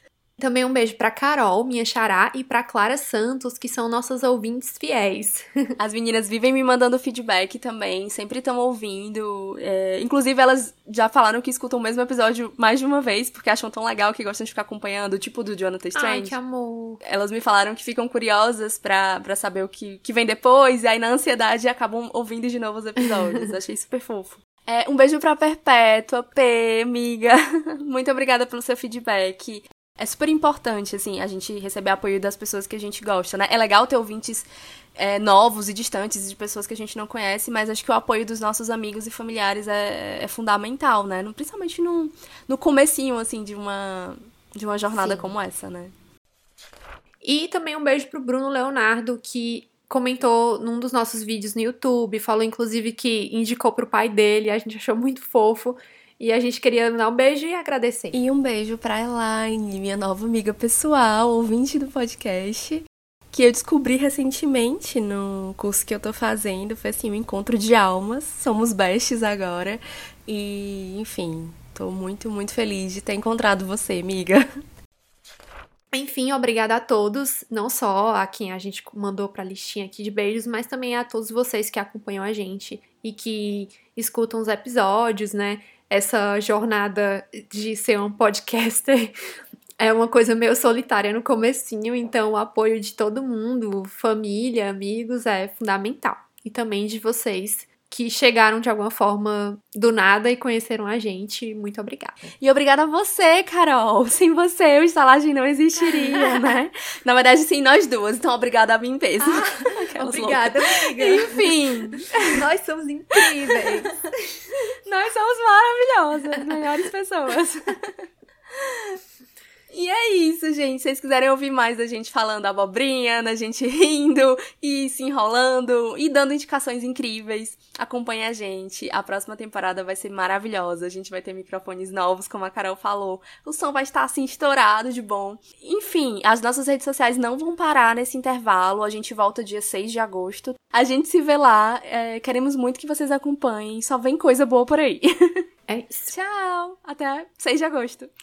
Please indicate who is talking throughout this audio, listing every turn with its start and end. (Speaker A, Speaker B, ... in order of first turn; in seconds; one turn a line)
Speaker A: 0.4-5.5
Speaker B: 5.8-16.4
Speaker A: 15.9-17.0
Speaker B: 17.0-45.9
Speaker A: 45.0-45.3
Speaker A: 47.2-58.2
Speaker B: 58.1-74.4
Speaker A: 75.9-89.1
Speaker A: 89.8-102.3
Speaker B: 102.4-112.3
Speaker A: 105.8-106.5
Speaker A: 109.2-111.6
Speaker A: 112.2-114.0
Speaker B: 113.2-113.8
Speaker B: 114.8-117.9
Speaker B: 118.5-119.0
Speaker B: 119.7-145.1
Speaker A: 145.7-146.1
Speaker B: 146.1-148.1